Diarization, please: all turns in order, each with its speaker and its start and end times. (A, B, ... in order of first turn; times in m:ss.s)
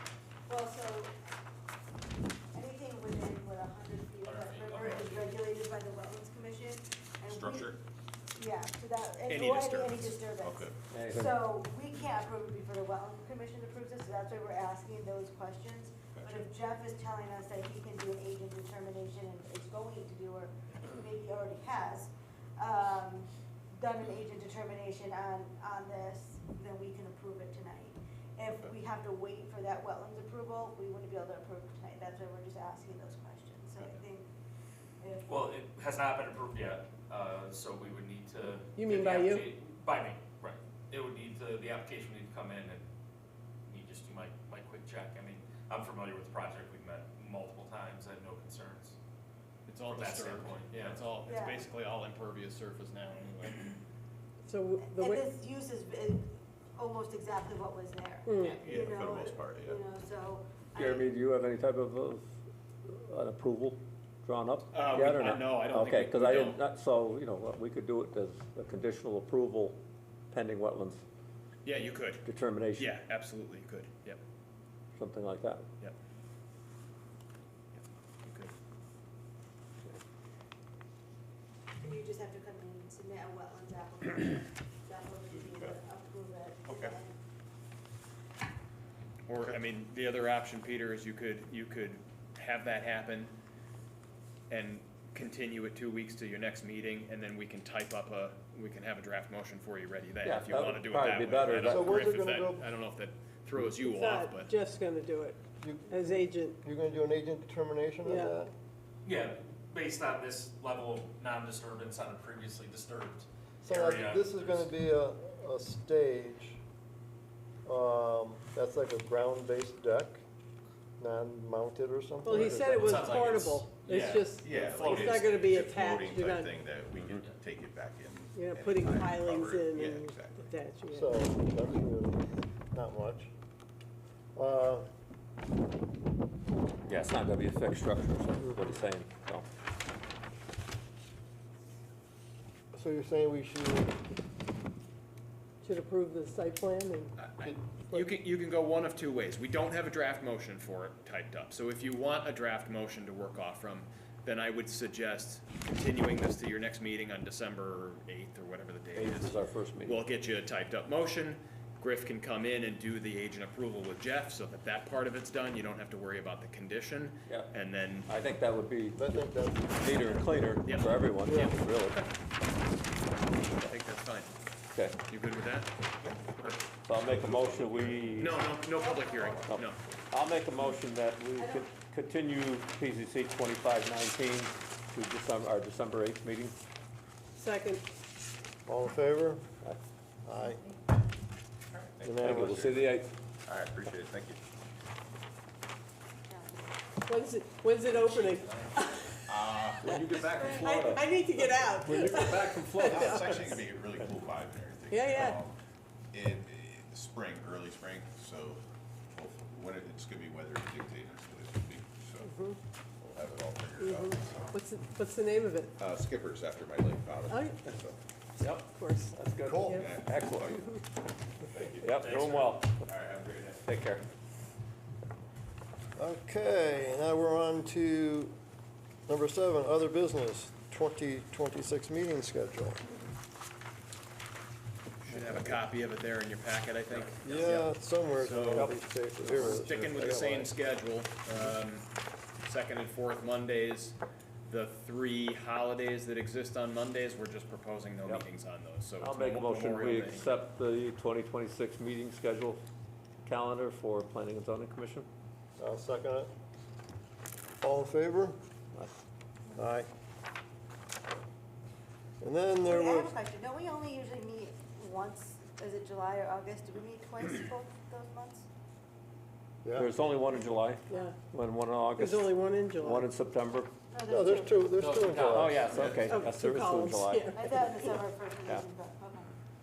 0:00.5-0:01.2 A
0:02.5-0:07.7 A
0:04.2-0:05.4 B
0:07.3-0:07.8 C
0:08.4-0:34.3 A
0:09.3-0:10.2 D
0:10.4-0:10.7 C
0:10.9-0:11.4 E
0:35.0-0:35.6 A
0:35.3-0:42.8 B
0:38.8-0:39.5 F
0:43.6-0:49.0 B
0:49.7-0:53.8 D
0:49.9-0:51.1 B
0:51.2-0:51.7 A
0:54.5-0:55.3 F
0:54.8-1:01.1 A
0:58.3-0:58.6 F
0:58.6-0:59.8 C
1:00.8-1:02.2 E
1:02.9-1:09.8 E
1:04.7-1:06.6 D
1:10.3-1:11.0 E
1:11.6-1:12.2 D
1:12.2-1:12.9 E
1:12.8-1:14.2 D
1:15.0-1:15.7 E
1:17.8-1:18.5 D
1:21.8-1:27.1 A
1:25.3-1:25.8 C
1:26.7-1:27.0 C
1:29.3-1:33.4 D
1:34.5-1:44.5 D
1:40.2-1:42.0 E
1:41.7-1:42.6 G
1:43.8-1:46.6 F
1:45.6-1:48.5 G
1:48.0-1:48.4 F
1:49.0-1:54.7 B
1:53.6-1:56.6 G
1:57.6-2:00.2 G
2:01.0-2:03.1 G
2:02.2-2:06.5 F
2:02.4-2:02.8 D
2:02.9-2:04.7 B
2:04.1-2:10.4 C
2:04.8-2:05.1 D
2:08.3-2:11.2 F
2:10.9-2:13.3 G
2:14.4-2:14.9 G
2:16.9-2:19.5 E
2:22.7-2:24.0 G
2:25.6-2:27.1 F
2:27.2-2:48.1 D
2:39.0-2:40.0 E
2:47.3-2:47.5 E
2:48.1-2:49.1 E
2:49.0-2:50.0 G
2:49.8-2:52.0 E
2:50.6-2:52.1 D
2:51.3-2:51.5 G
2:53.6-2:54.4 D
2:54.7-2:55.0 E
2:55.1-2:55.7 D
2:56.0-2:58.4 C
2:56.8-2:58.4 E
2:58.2-2:59.8 D
2:58.7-2:59.5 A
2:59.5-3:06.6 E
3:01.4-3:01.7 A
3:07.4-3:07.8 F
3:08.7-3:09.4 G
3:10.2-3:10.6 G
3:11.7-3:12.9 C
3:12.0-3:12.6 G
3:12.2-3:13.1 E
3:13.5-3:14.4 C
3:16.3-3:16.9 A
3:17.1-3:19.2 F
3:19.2-3:21.0 C
3:19.8-3:23.5 E
3:20.2-3:23.6 F
3:20.3-3:20.8 A
3:22.8-3:25.6 C
3:24.9-3:25.4 F
3:26.1-3:32.3 C
3:32.2-3:32.6 F
3:33.0-3:34.6 C
3:33.8-3:35.7 F
3:35.8-3:38.0 C
3:37.3-3:37.6 F
3:38.4-3:40.8 E
3:38.7-3:39.9 F
3:39.5-3:39.8 G
3:39.6-3:40.8 C
3:41.4-3:43.6 C
3:41.8-3:42.8 E
3:42.1-3:42.4 B
3:43.6-3:44.0 E
3:46.0-3:48.4 G
3:49.1-3:52.8 G
3:55.0-3:58.8 D
3:57.2-4:00.5 G
3:58.5-3:59.7 E
3:59.3-4:01.8 D
4:02.4-4:10.4 D
4:09.0-4:12.6 E
4:13.2-4:15.1 E
4:15.6-4:16.3 G
4:17.6-4:18.4 G
4:19.6-4:19.9 G
4:22.2-4:23.1 G
4:22.6-4:28.5 A
4:29.6-4:29.9 G
4:29.8-4:33.7 E
4:30.3-4:31.1 A
4:30.9-4:31.2 F
4:32.0-4:33.1 F
4:33.9-4:35.2 A
4:34.1-4:35.8 G
4:35.0-4:35.4 B
4:35.2-4:37.4 E
4:35.9-4:38.0 F
4:37.3-4:39.4 A